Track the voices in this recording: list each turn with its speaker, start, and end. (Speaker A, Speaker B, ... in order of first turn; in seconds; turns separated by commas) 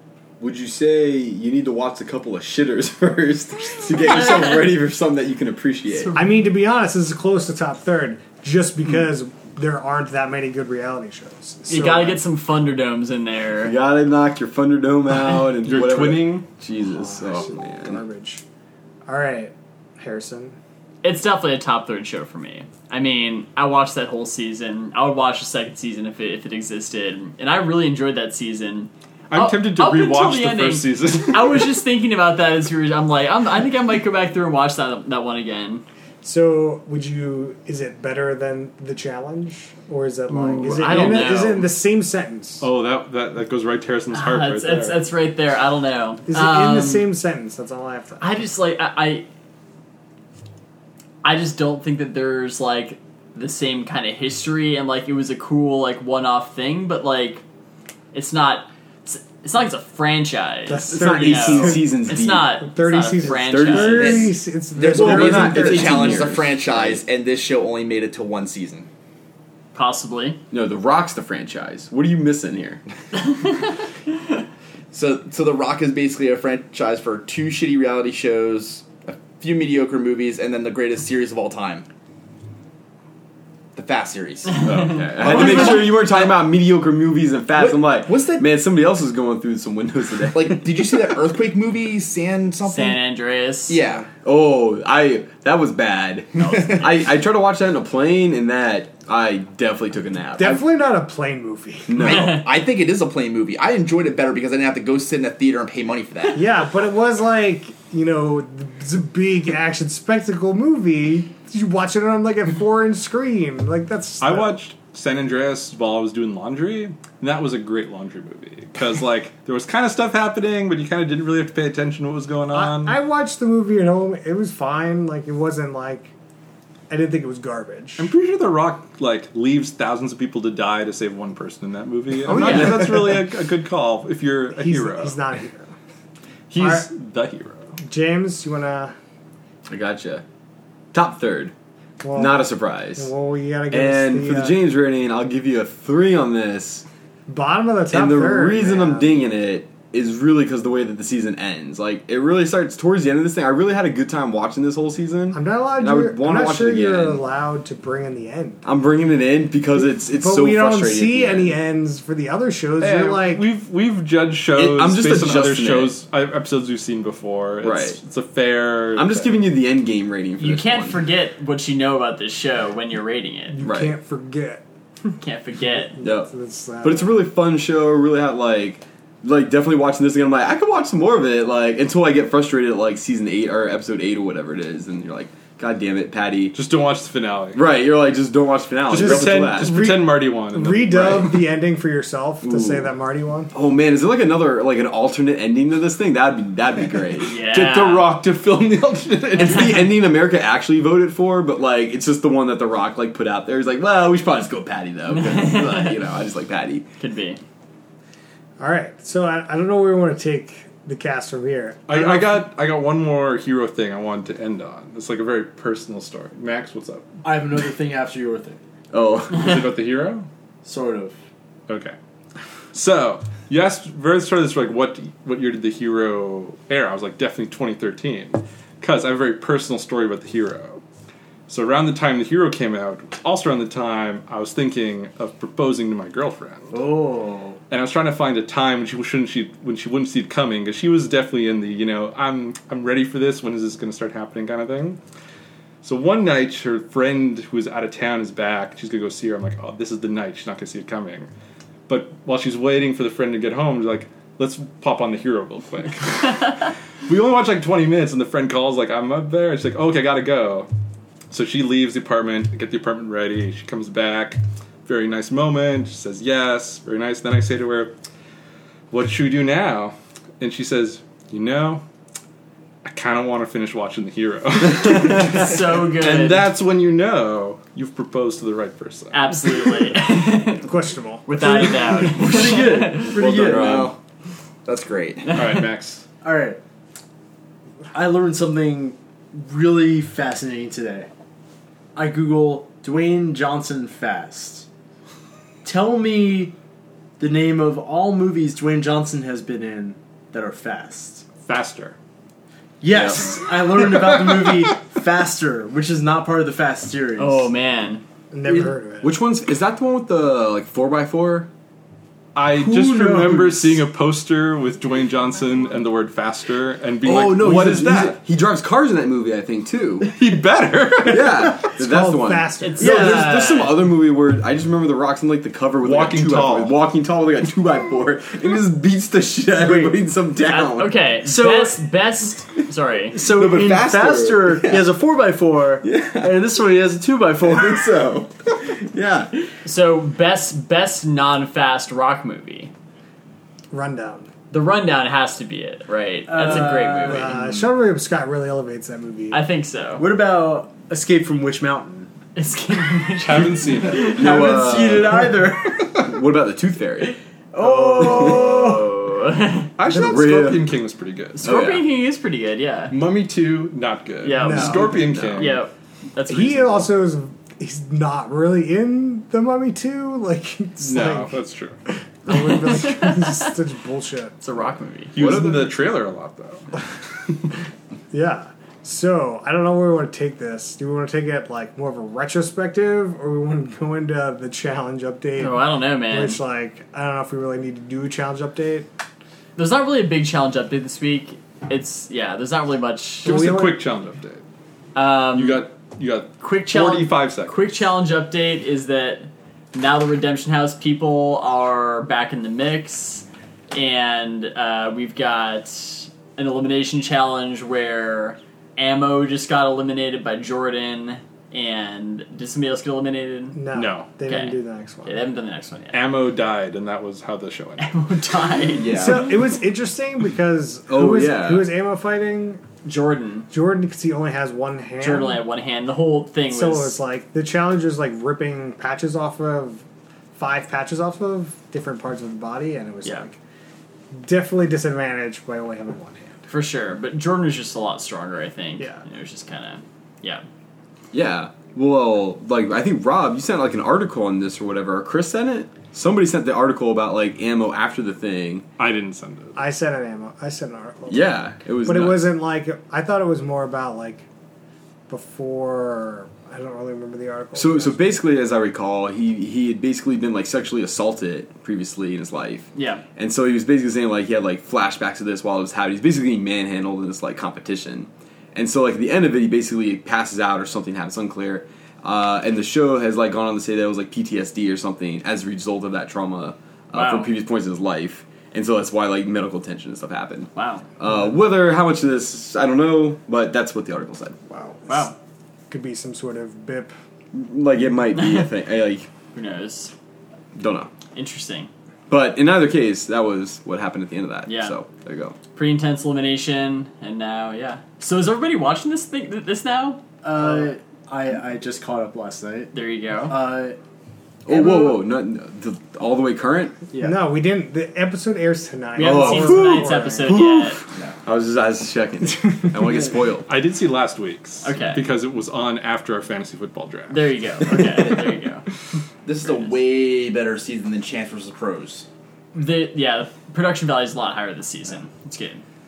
Speaker A: 0.4-6.1, Speaker B: 4.0-4.7, Speaker B: 5.9-6.3, Speaker C: 6.1-12.2, Speaker B: 11.7-13.8, Speaker A: 13.6-18.0, Speaker D: 15.6-16.5, Speaker C: 16.8-18.4, Speaker C: 19.1-20.6, Speaker B: 21.0-35.9, Speaker D: 29.3-31.8, Speaker C: 36.2-42.7, Speaker B: 40.3-41.7, Speaker D: 42.6-45.0, Speaker B: 44.1-47.1, Speaker C: 46.3-48.4, Speaker B: 48.2-49.3, Speaker B: 51.2-57.4, Speaker B: 58.1-64.3, Speaker C: 60.7-66.3, Speaker A: 60.8-62.5, Speaker A: 63.4-64.3, Speaker E: 63.9-68.9, Speaker A: 64.9-67.0, Speaker B: 69.8-70.4, Speaker A: 70.5-72.8, Speaker E: 74.9-81.9, Speaker E: 83.8-86.4, Speaker A: 84.6-91.2, Speaker B: 84.7-85.9, Speaker E: 87.6-88.5, Speaker E: 90.3-93.0, Speaker B: 92.7-93.8, Speaker E: 93.7-94.1, Speaker A: 94.2-100.6, Speaker B: 96.4-96.8, Speaker C: 100.4-102.2, Speaker A: 101.9-102.4, Speaker E: 102.0-106.5, Speaker B: 102.1-102.4, Speaker C: 106.3-114.5, Speaker D: 114.2-123.0, Speaker C: 122.5-126.1, Speaker C: 126.9-128.1, Speaker D: 128.0-135.2, Speaker C: 132.2-133.3, Speaker B: 132.3-132.7, Speaker C: 134.6-135.7, Speaker D: 136.5-137.7, Speaker C: 136.6-136.9, Speaker C: 137.8-138.9, Speaker A: 139.7-140.2, Speaker A: 140.9-141.5, Speaker C: 142.0-144.6, Speaker A: 142.1-143.1, Speaker A: 143.7-146.8, Speaker C: 147.3-149.2, Speaker A: 147.9-157.2, Speaker C: 155.3-158.7, Speaker A: 158.7-161.6, Speaker C: 159.7-163.4, Speaker D: 162.8-169.5, Speaker A: 164.6-166.0, Speaker A: 167.6-168.0, Speaker A: 168.9-171.0, Speaker B: 170.4-173.6, Speaker C: 173.5-174.6, Speaker A: 173.6-174.0, Speaker B: 175.2-176.0, Speaker C: 176.0-177.2, Speaker A: 176.0-176.3, Speaker A: 176.8-186.6, Speaker D: 186.5-187.7, Speaker A: 187.6-189.9, Speaker D: 188.9-191.5, Speaker C: 188.9-193.5, Speaker A: 192.4-192.9, Speaker A: 193.5-197.4, Speaker B: 197.2-198.1, Speaker D: 197.4-200.0, Speaker A: 199.3-206.8, Speaker B: 205.1-206.0, Speaker B: 207.0-207.4, Speaker C: 208.6-212.4, Speaker D: 211.9-217.1, Speaker F: 217.2-218.6, Speaker A: 218.9-219.8, Speaker D: 219.3-220.3, Speaker F: 220.6-221.2, Speaker D: 221.7-221.9, Speaker D: 222.7-230.8, Speaker D: 231.5-236.8, Speaker F: 236.7-237.6, Speaker D: 237.7-245.0, Speaker D: 245.8-251.3, Speaker D: 251.9-260.7, Speaker D: 261.3-267.9, Speaker D: 268.9-271.8, Speaker D: 272.9-279.9, Speaker B: 275.2-276.5, Speaker B: 279.1-280.7, Speaker C: 280.6-281.6, Speaker B: 281.3-283.2, Speaker F: 282.1-283.9, Speaker A: 282.2-284.0, Speaker E: 283.4-283.8, Speaker E: 284.6-285.4, Speaker B: 285.2-285.6, Speaker D: 285.3-286.1, Speaker F: 286.2-286.6, Speaker F: 287.9-291.1, Speaker F: 291.9-294.7, Speaker F: 295.6-296.6, Speaker F: 297.2-301.2, Speaker D: 301.4-301.9, Speaker F: 302.8-307.5, Speaker A: 302.9-303.4, Speaker D: 303.9-304.6, Speaker B: 307.2-308.0, Speaker C: 308.3-309.2, Speaker F: 308.5-308.7, Speaker A: 309.0-311.5, Speaker D: 312.4-318.2, Speaker F: 312.5-313.9, Speaker A: 317.0-320.1, Speaker D: 320.0-321.7, Speaker A: 321.1-331.0, Speaker C: 321.7-323.2, Speaker B: 322.6-323.8, Speaker D: 325.8-326.8, Speaker F: 329.6-330.0, Speaker B: 330.4-333.2, Speaker F: 331.2-331.9, Speaker F: 333.1-337.9, Speaker A: 333.2-334.9, Speaker A: 335.8-336.4, Speaker A: 337.4-339.4, Speaker B: 339.6-342.7, Speaker C: 343.7-344.3, Speaker B: 344.5-347.4, Speaker F: 346.3-347.7, Speaker C: 347.0-349.4, Speaker B: 349.3-350.0, Speaker F: 350.0-352.1, Speaker B: 352.4-354.1, Speaker D: 353.2-354.3, Speaker F: 353.9-356.0, Speaker A: 353.9-355.3, Speaker A: 355.9-357.2, Speaker F: 357.5-358.9, Speaker B: 357.6-359.7, Speaker A: 357.9-358.8, Speaker D: 359.8-361.5, Speaker C: 359.9-360.2, Speaker A: 359.9-360.7, Speaker B: 361.4-362.9, Speaker A: 361.4-361.8, Speaker D: 362.9-365.6, Speaker B: 364.2-366.9, Speaker C: 364.3-365.1, Speaker A: 364.9-365.5, Speaker C: 366.3-371.3, Speaker D: 370.8-371.8, Speaker C: 372.2-374.4, Speaker B: 372.3-373.4, Speaker B: 374.4-375.2, Speaker D: 375.1-376.7, Speaker A: 375.2-375.8, Speaker C: 378.1-388.9, Speaker B: 385.4-386.4, Speaker B: 389.6-393.4, Speaker C: 393.2-393.8, Speaker D: 393.2-394.4, Speaker B: 394.9-395.6, Speaker D: 395.4-397.7, Speaker B: 396.4-413.6, Speaker C: 413.6-415.3, Speaker D: 413.7-414.1, Speaker B: 414.3-416.0, Speaker D: 415.9-417.9, Speaker B: 417.8-419.3, Speaker A: 418.8-419.4, Speaker C: 418.9-422.6, Speaker A: 420.9-421.7, Speaker B: 422.8-423.5, Speaker C: 423.5-425.4, Speaker B: 425.0-427.0, Speaker C: 426.5-429.8, Speaker C: 430.4-433.4, Speaker C: 434.1-436.4, Speaker B: 436.5-440.4, Speaker C: 438.8-439.0, Speaker A: 441.1-448.6, Speaker D: 448.8-449.6, Speaker C: 449.6-454.2, Speaker A: 451.1-452.3, Speaker C: 455.1-458.1, Speaker A: 457.6-484.5, Speaker B: 462.7-463.0, Speaker B: 476.9-477.3, Speaker B: 480.6-480.9, Speaker C: 484.6-485.1, Speaker B: 484.9-485.1, Speaker C: 485.7-486.9, Speaker A: 487.3-489.1, Speaker B: 488.1-488.5, Speaker B: 489.3-489.9, Speaker A: 490.6-490.9, Speaker B: 491.1-491.7, Speaker A: 492.1-495.4, Speaker B: 494.5-494.8, Speaker B: 495.5-500.0, Speaker F: 500.2-503.8, Speaker C: 500.4-500.7, Speaker B: 502.7-503.4, Speaker A: 504.5-506.9, Speaker F: 504.5-505.0, Speaker F: 506.9-507.2, Speaker C: 507.0-510.4, Speaker B: 509.0-510.8, Speaker A: 509.0-513.5, Speaker D: 513.5-517.3, Speaker B: 514.6-515.0, Speaker B: 517.1-518.7, Speaker E: 519.2-522.1, Speaker B: 522.5-525.6